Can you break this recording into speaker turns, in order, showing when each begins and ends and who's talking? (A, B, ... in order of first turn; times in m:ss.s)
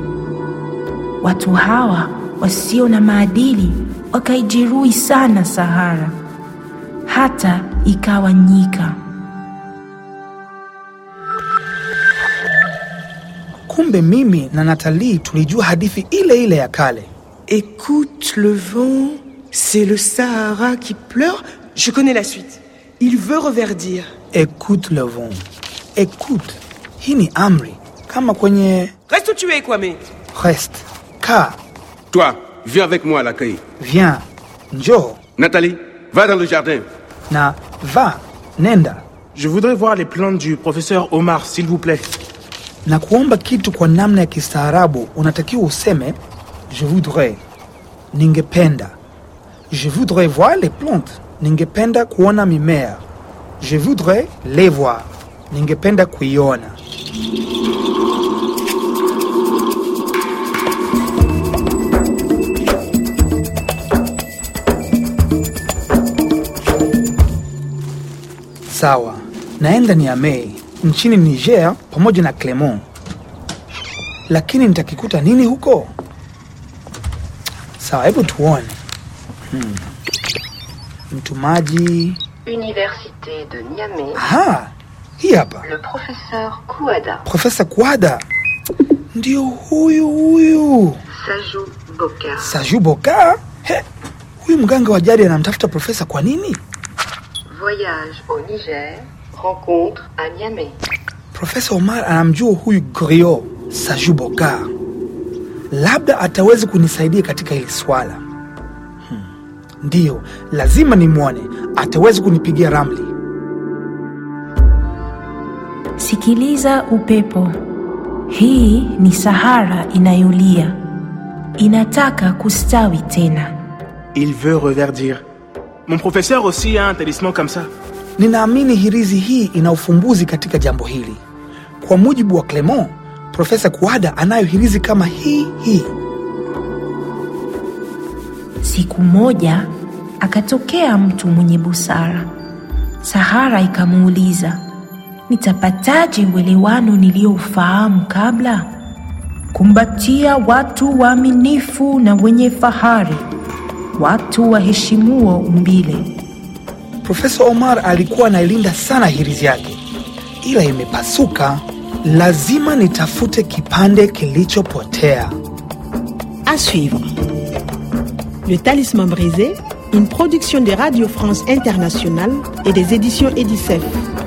0:01.2-0:06.1 A
0:07.1-0:09.0 A
0:13.7-0:17.1 B
0:17.5-0:24.1 C
0:24.3-0:25.4 B
0:26.0-0:28.9 B
0:29.1-0:30.0 C
0:30.3-0:31.6 B
0:32.1-0:33.6 D
0:33.8-0:35.2 B
0:35.4-0:36.8 D
0:37.3-0:39.0 B
0:39.4-0:42.2 E
0:42.9-0:46.2 B
0:46.7-0:47.4 B
0:48.1-0:49.0 B
0:49.7-0:53.0 B
0:53.6-0:56.8 B
1:08.7-1:12.8 B
1:14.3-1:15.9 B
1:17.8-1:18.8 B
1:19.5-1:19.9 B
1:21.1-1:22.2 B
1:22.4-1:24.2 F
1:24.2-1:25.7 B
1:25.6-1:27.2 F
1:27.3-1:28.2 B
1:29.2-1:31.0 B
1:31.1-1:32.6 F
1:32.4-1:33.8 B
1:34.4-1:36.6 B
1:37.5-1:40.8 F
1:41.3-1:44.7 B
1:45.7-1:48.2 B
1:49.8-1:53.1 B
1:56.0-1:57.6 A
1:58.3-2:00.8 A
2:01.6-2:03.5 A
2:04.2-2:05.2 E
2:05.9-2:07.7 E
2:08.2-2:11.2 B
2:11.8-2:15.9 B
2:18.6-2:19.7 A
2:20.2-2:22.3 A
2:23.0-2:24.6 A
2:25.3-2:28.7 A
2:29.5-2:33.2 A
2:34.0-2:36.1 A
2:37.0-2:39.8 B
2:40.4-2:45.4 B
2:46.5-2:47.1 G
2:48.4-2:53.9 G